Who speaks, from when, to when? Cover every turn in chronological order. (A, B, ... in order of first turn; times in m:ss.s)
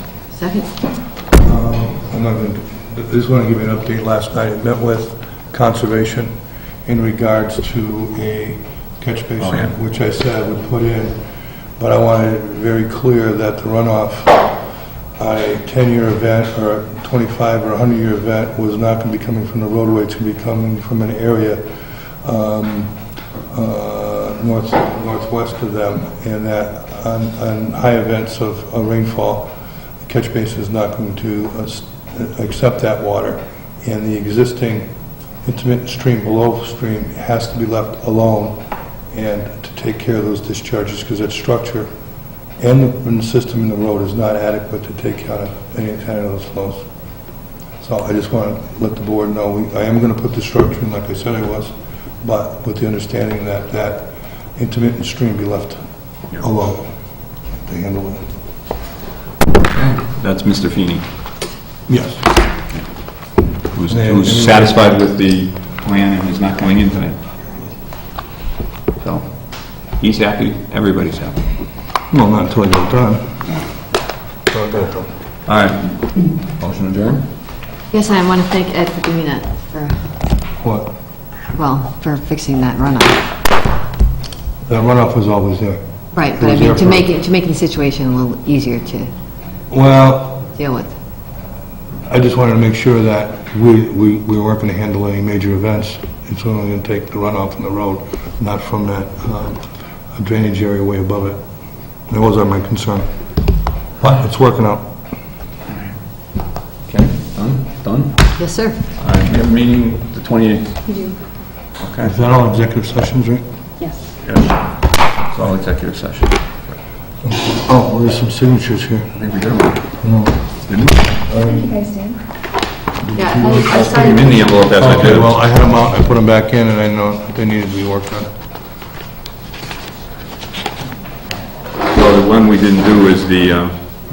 0:00.3-0:00.7 A
0:01.4-0:06.3 B
0:06.8-0:11.2 B
0:09.4-0:09.7 C
0:11.8-0:14.6 B
0:15.2-0:21.6 B
0:22.2-0:23.0 B
0:23.5-0:29.5 B
0:30.0-0:34.9 B
0:35.4-0:38.6 B
0:39.1-0:41.9 B
0:42.6-0:46.8 B
0:47.8-0:55.8 B
0:56.3-0:56.9 B
0:57.6-0:58.2 B
0:59.7-1:01.0 C
1:01.9-1:02.3 B
1:03.7-1:07.2 C
1:03.9-1:05.0 B
1:09.0-1:11.4 C
1:12.1-1:13.4 B
1:14.5-1:15.1 B
1:15.4-1:17.2 C
1:17.9-1:20.2 A
1:20.6-1:20.9 B
1:21.5-1:23.2 A
1:24.6-1:27.1 B
1:26.1-1:29.1 A
1:29.7-1:30.4 B
1:30.5-1:30.9 A
1:32.0-1:41.4 B
1:42.1-1:43.1 B
1:44.0-1:44.9 B
1:46.9-1:48.3 C
1:48.4-1:48.8 A
1:49.0-1:51.0 C
1:50.9-1:51.2 D
1:51.8-1:52.1 C
1:52.0-1:53.4 B
1:54.2-1:54.6 C
1:55.3-1:56.4 C
1:57.2-1:59.2 B
1:59.1-1:59.8 C
2:00.0-2:00.4 B
2:00.7-2:01.0 C
2:01.3-2:01.8 B
2:01.5-2:02.2 D
2:03.1-2:03.4 B
2:03.1-2:04.3 A
2:03.2-2:05.3 C
2:03.4-2:04.2 D
2:04.7-2:08.3 B
2:11.9-2:13.7 C